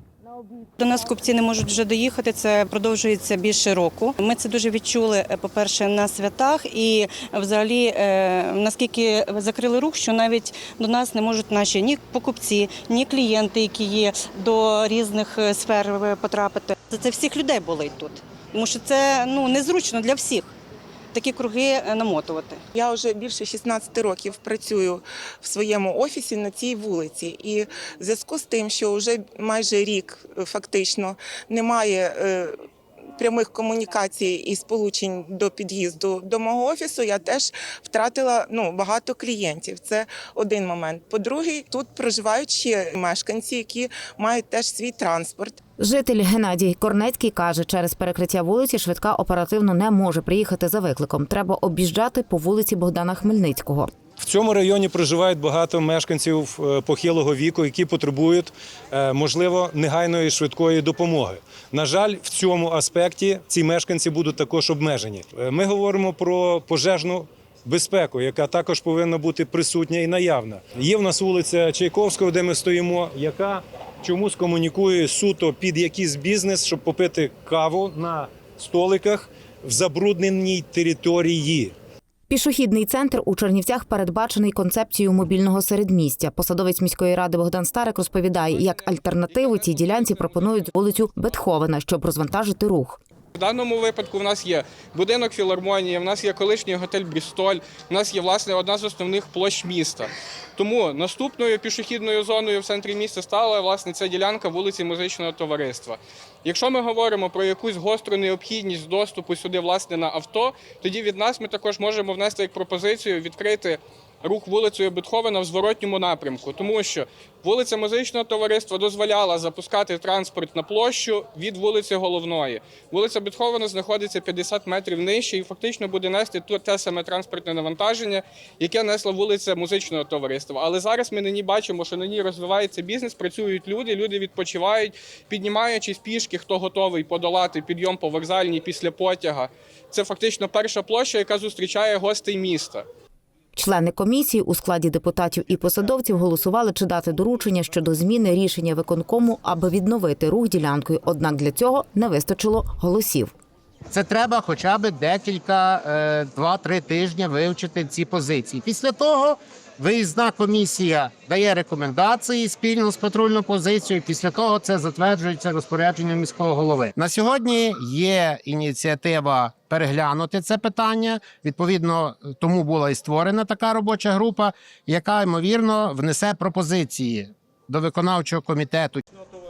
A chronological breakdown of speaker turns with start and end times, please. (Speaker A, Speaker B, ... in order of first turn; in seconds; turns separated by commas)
Speaker A: 0.8-20.5, Speaker A: 21.1-22.6, Speaker B: 22.7-32.5, Speaker B: 33.2-45.6, Speaker C: 45.8-53.9, Speaker D: 54.2-81.7, Speaker C: 82.3-93.0, Speaker E: 89.3-89.9, Speaker E: 93.3-142.8, Speaker C: 143.6-153.3, Speaker F: 153.9-179.0